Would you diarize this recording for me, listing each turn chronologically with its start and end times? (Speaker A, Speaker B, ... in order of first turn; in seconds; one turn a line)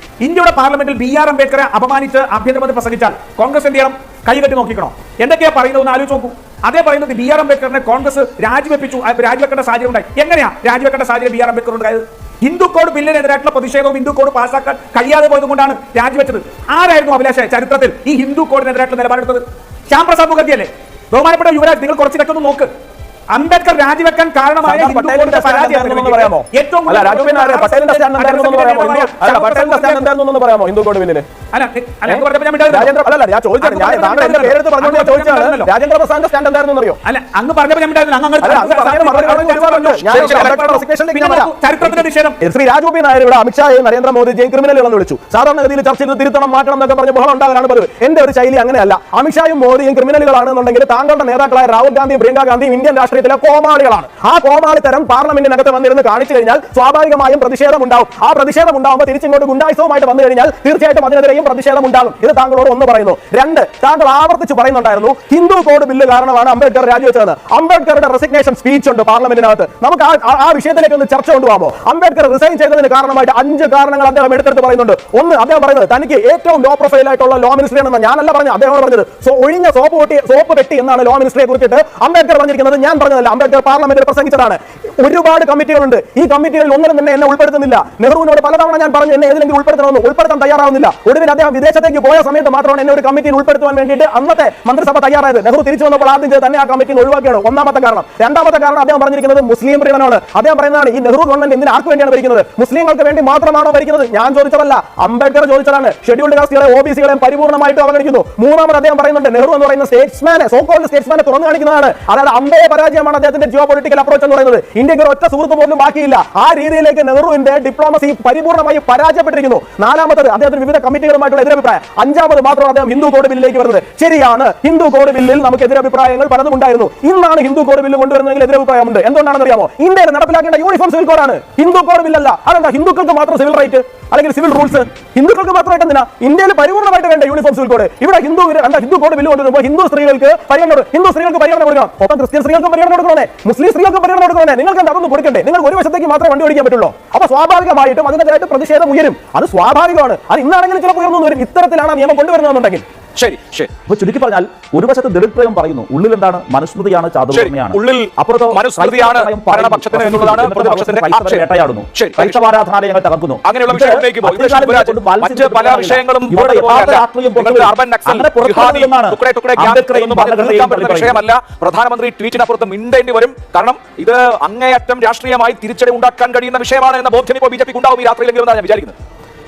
Speaker A: 0.2-22.7
Speaker A: 23.3-30.1
Speaker B: 24.6-31.2
Speaker A: 31.5-32.9
Speaker B: 32.0-37.0
Speaker A: 33.6-35.7
Speaker A: 37.0-42.4
Speaker B: 38.4-152.8
Speaker C: 40.1-40.5
Speaker C: 153.2-153.7
Speaker D: 153.8-171.2
Speaker C: 157.3-162.4
Speaker C: 163.4-178.9